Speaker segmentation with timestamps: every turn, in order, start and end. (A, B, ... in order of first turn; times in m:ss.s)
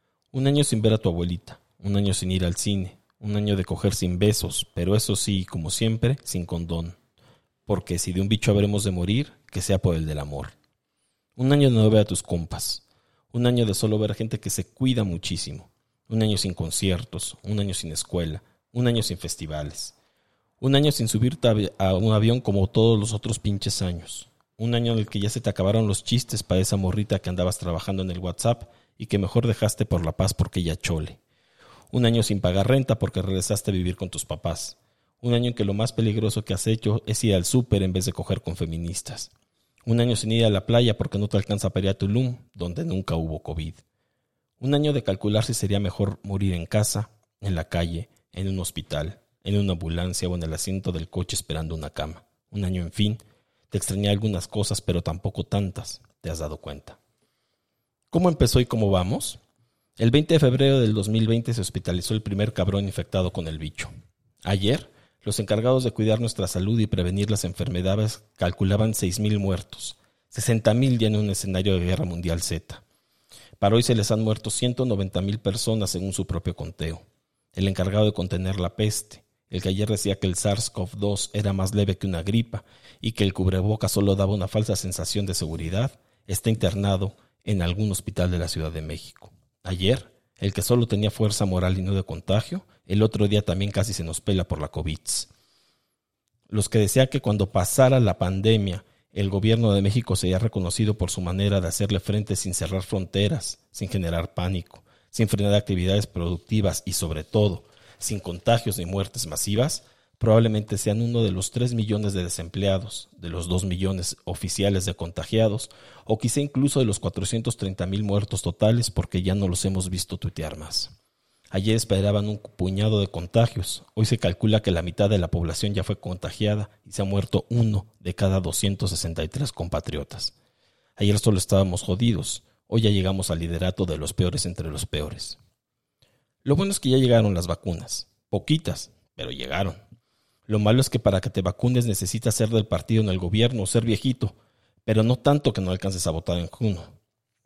0:00.3-0:07.0 A
0:07.7-0:10.5 A
0:11.4-0:20.0 A
0:20.6-0:31.2 A
0:31.9-0:39.3 A
0:39.9-0:43.8 A
0:44.6-0:57.0 A
0:58.1-0:59.4 A
1:00.0-1:03.9 A
1:04.4-1:12.8 A
1:13.6-1:17.0 A
1:17.6-1:35.3 A
1:36.5-2:00.9 A
2:01.5-2:10.3 A
2:11.0-2:15.4 A
2:16.4-2:19.8 A
2:20.5-2:24.4 A
2:24.9-2:26.9 A